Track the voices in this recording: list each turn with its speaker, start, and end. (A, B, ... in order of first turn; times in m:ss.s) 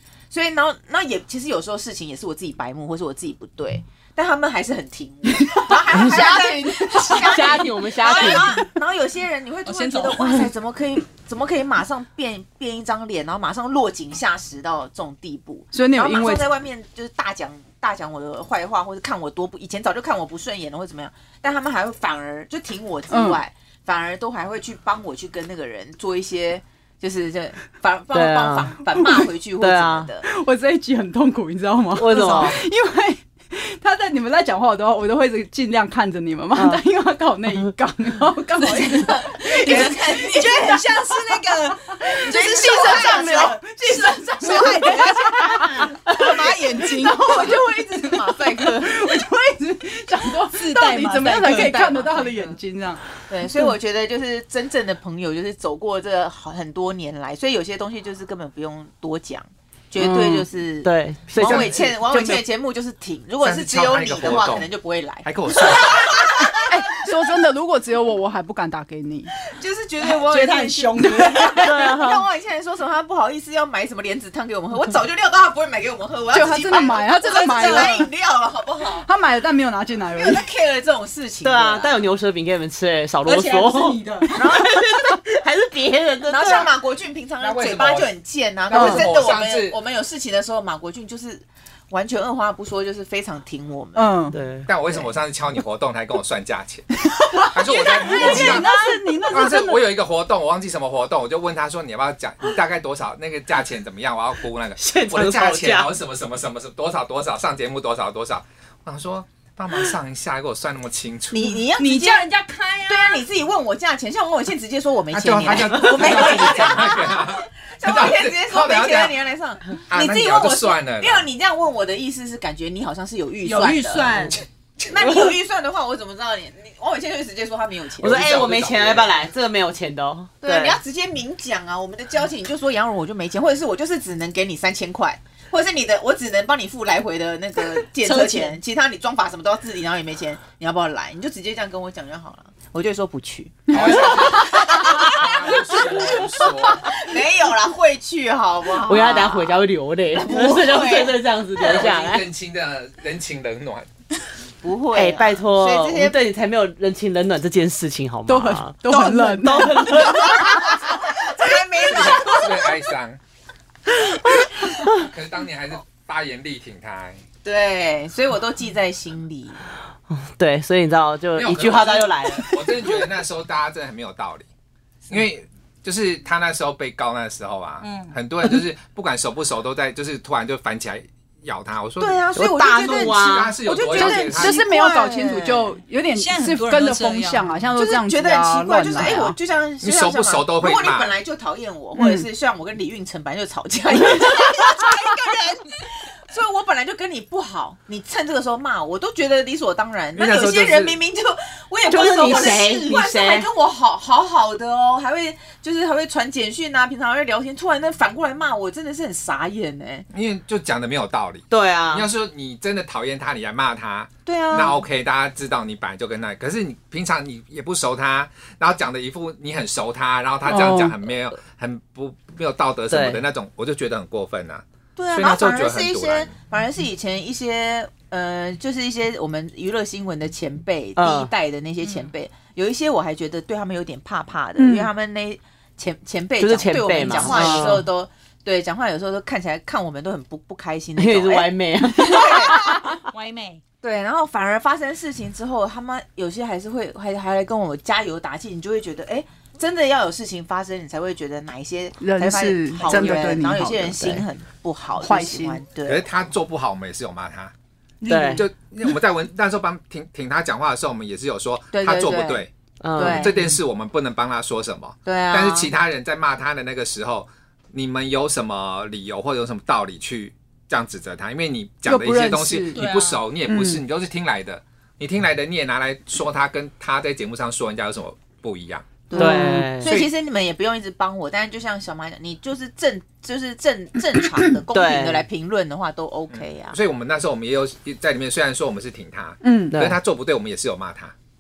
0:00.3-0:30.2 A
0:05.4-0:07.6 B
0:07.0-0:08.6 C
0:09.6-0:10.5 D
0:15.7-0:16.5 B
0:23.1-0:23.4 B
0:28.1-0:28.7 C
0:29.6-0:30.1 C
0:30.2-0:40.0 B
0:31.9-0:32.6 C
0:32.1-0:32.5 A
0:36.6-0:36.8 C
0:38.6-0:47.4 D
0:38.7-0:40.8 A
0:42.0-0:53.0 B
0:42.3-0:43.5 A
0:46.1-0:49.0 A
0:50.5-0:51.8 D
0:51.2-0:52.6 A
0:53.2-1:06.6 A
1:00.8-1:02.4 C
1:01.4-1:01.8 E
1:03.4-1:04.7 E
1:05.2-1:06.2 E
1:06.5-1:09.3 B
1:09.5-1:19.0 A
1:10.0-1:11.8 D
1:11.6-1:12.3 C
1:16.3-1:18.1 B
1:17.2-1:18.0 D
1:19.0-1:20.5 B
1:20.2-1:21.9 A
1:21.4-1:26.7 C
1:23.2-1:24.4 D
1:24.3-1:24.8 A
1:26.3-1:34.1 A
1:27.4-1:28.1 E
1:28.7-1:29.8 E
1:28.7-1:29.0 B
1:33.9-1:34.4 B
1:34.3-1:34.7 C
1:34.6-1:36.9 E
1:37.4-1:39.8 B
1:37.5-1:38.8 E
1:38.1-1:38.4 A
1:39.3-1:51.6 E
1:44.8-1:45.9 C
1:51.3-1:52.2 A
1:51.8-1:53.2 D
1:52.9-2:08.6 A
1:55.1-1:59.2 E
1:59.9-2:01.3 E
2:03.4-2:04.4 D
2:08.0-2:10.8 C
2:08.0-2:09.1 E
2:10.4-2:29.6 A
2:17.9-2:18.6 D
2:23.7-2:27.0 E
2:28.8-2:32.3 C
2:30.1-2:32.0 A
2:31.6-2:33.9 E
2:34.6-2:36.2 A
2:34.9-2:40.7 C
2:38.3-2:39.9 B
2:38.9-2:42.8 A
2:41.8-2:43.2 E
2:44.9-2:47.2 E
2:47.4-2:49.6 A
2:50.1-2:52.5 C
2:51.3-2:54.5 E
2:55.1-3:04.6 E
2:57.8-2:58.1 D
3:02.0-3:05.7 A
3:02.3-3:03.6 C
3:03.9-3:09.4 B
3:06.2-3:07.5 D
3:07.8-3:30.1 A
3:09.8-3:11.1 E
3:12.0-3:12.3 B
3:20.1-3:21.0 E
3:21.9-3:23.5 C
3:30.1-3:46.4 E
3:31.5-3:32.0 C
3:34.2-3:34.8 A
3:40.4-3:41.0 B
3:42.9-3:43.2 C
3:45.0-4:02.7 A
3:51.0-3:51.3 C
3:51.8-3:52.1 D
3:54.6-3:54.9 B
3:56.4-3:57.8 C
3:57.1-3:57.6 D
4:01.0-4:02.9 C
4:02.4-4:03.6 D
4:03.8-4:16.0 A
4:12.0-4:14.0 B
4:12.9-4:13.2 C
4:14.0-4:14.2 C
4:15.0-4:15.6 B
4:15.8-4:17.5 E
4:18.0-4:18.4 D
4:18.1-4:18.4 C
4:18.4-4:39.0 E
4:21.7-4:22.4 A
4:22.8-4:23.3 C
4:23.0-4:23.5 A
4:25.0-4:25.7 A
4:31.8-4:32.8 B
4:32.7-4:33.2 D
4:33.5-4:33.8 B
4:39.1-4:46.8 A
4:39.1-4:39.7 B
4:39.2-4:39.9 C
4:39.8-4:40.1 E
4:44.7-4:45.2 C
4:46.3-4:51.1 E
4:49.4-4:49.7 B
4:49.7-4:50.0 C